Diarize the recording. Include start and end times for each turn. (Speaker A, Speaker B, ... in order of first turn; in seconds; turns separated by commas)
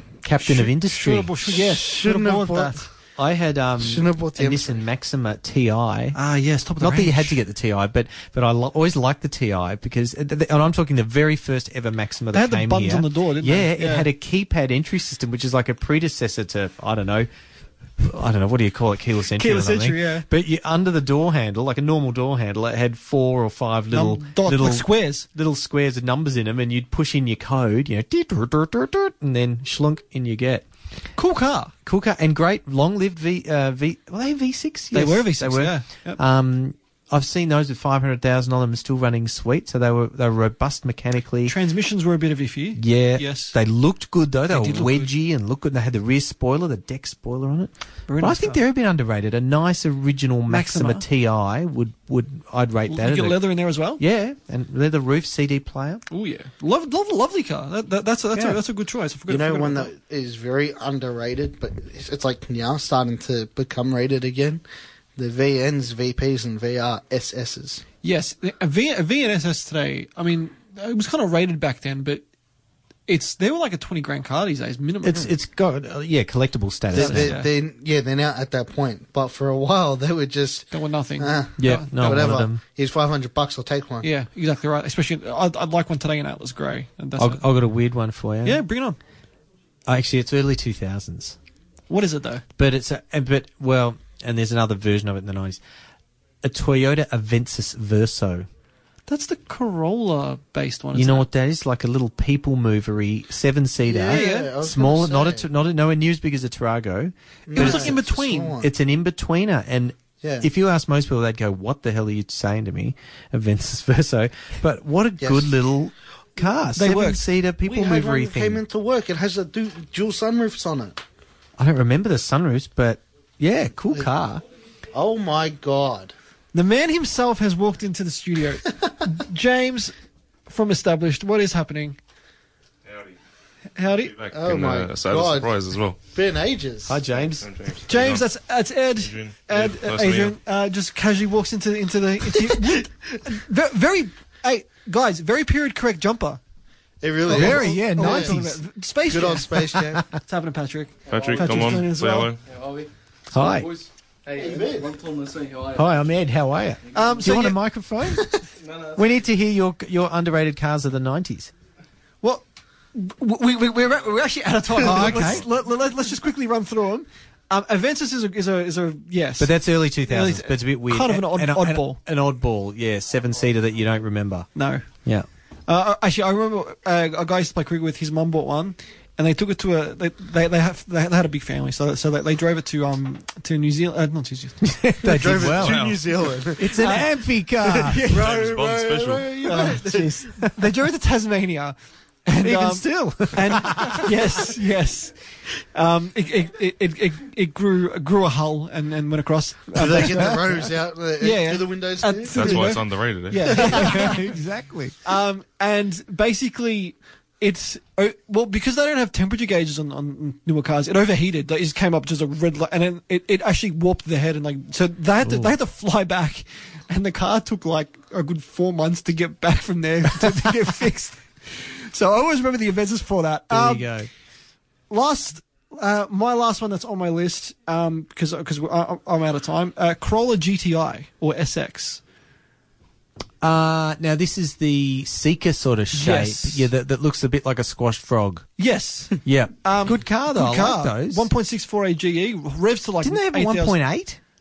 Speaker A: 0.2-1.3, Speaker B: 0.4-2.9, Speaker C: 1.5-2.9, Speaker A: 3.2-6.2, Speaker C: 3.8-4.8, Speaker B: 6.1-7.4, Speaker A: 6.8-17.3, Speaker B: 12.3-14.1, Speaker A: 18.0-30.6, Speaker B: 19.3-20.3, Speaker B: 23.9-25.2, Speaker B: 31.1-31.7, Speaker A: 31.9-41.5, Speaker B: 34.9-36.2, Speaker B: 41.5-43.5, Speaker A: 42.7-53.5, Speaker B: 44.5-45.1, Speaker B: 48.1-48.6, Speaker B: 50.5-51.0, Speaker B: 52.9-54.0, Speaker A: 54.0-56.0, Speaker B: 56.1-59.9, Speaker A: 58.3-58.6, Speaker C: 59.3-64.6, Speaker C: 65.2-67.8, Speaker B: 68.0-72.2, Speaker B: 73.1-75.3, Speaker A: 75.0-77.4, Speaker C: 76.9-84.1, Speaker B: 76.9-77.5, Speaker B: 80.7-82.4, Speaker A: 81.6-82.6, Speaker B: 84.0-87.5, Speaker A: 87.2-88.6, Speaker B: 88.4-89.0, Speaker A: 89.9-91.3, Speaker B: 91.9-92.4, Speaker A: 92.6-95.6, Speaker A: 96.4-98.5, Speaker B: 99.1-101.2, Speaker A: 100.9-108.0, Speaker C: 103.8-105.5, Speaker B: 104.1-104.5, Speaker C: 107.5-108.7, Speaker B: 107.5-108.5, Speaker A: 108.6-118.6, Speaker C: 110.2-110.5, Speaker C: 115.2-115.5, Speaker B: 116.8-117.2, Speaker C: 117.6-121.0, Speaker A: 121.6-124.4, Speaker C: 124.9-126.1, Speaker B: 126.5-129.9, Speaker B: 130.5-132.0, Speaker D: 132.9-133.1, Speaker B: 133.8-134.1, Speaker D: 134.0-136.0, Speaker C: 134.3-137.0, Speaker A: 136.9-137.5, Speaker D: 137.2-138.2, Speaker B: 137.9-146.4, Speaker D: 138.9-140.3, Speaker C: 142.8-143.2, Speaker C: 147.0-148.3, Speaker B: 147.3-152.3, Speaker A: 147.3-148.6, Speaker C: 149.1-150.0, Speaker A: 149.8-150.1, Speaker E: 151.1-151.9, Speaker D: 151.1-152.4, Speaker E: 152.4-156.0, Speaker A: 153.3-153.7, Speaker C: 154.3-154.9, Speaker A: 155.7-158.3, Speaker E: 156.9-157.2, Speaker B: 156.9-157.6, Speaker E: 158.6-159.2, Speaker A: 158.9-161.5, Speaker B: 162.2-172.0, Speaker A: 164.8-165.4, Speaker C: 164.8-165.3, Speaker A: 169.4-174.5, Speaker B: 174.5-174.9, Speaker B: 175.7-184.7, Speaker A: 184.6-185.9, Speaker C: 185.0-187.0, Speaker D: 185.2-186.0, Speaker A: 186.6-188.0, Speaker B: 186.6-187.1, Speaker C: 187.6-190.1, Speaker B: 187.7-188.2, Speaker D: 188.0-189.4, Speaker B: 189.4-195.2, Speaker A: 189.5-190.7, Speaker A: 192.4-194.4, Speaker B: 195.7-200.6, Speaker C: 199.7-202.8, Speaker B: 201.2-204.3, Speaker D: 202.3-203.6, Speaker C: 203.4-204.1, Speaker A: 203.5-204.9, Speaker B: 205.0-223.9, Speaker A: 215.2-215.5, Speaker A: 223.5-224.1, Speaker B: 224.9-232.0, Speaker A: 233.4-238.5, Speaker B: 235.9-236.7, Speaker B: 238.6-243.8, Speaker A: 239.2-241.3, Speaker A: 243.0-244.2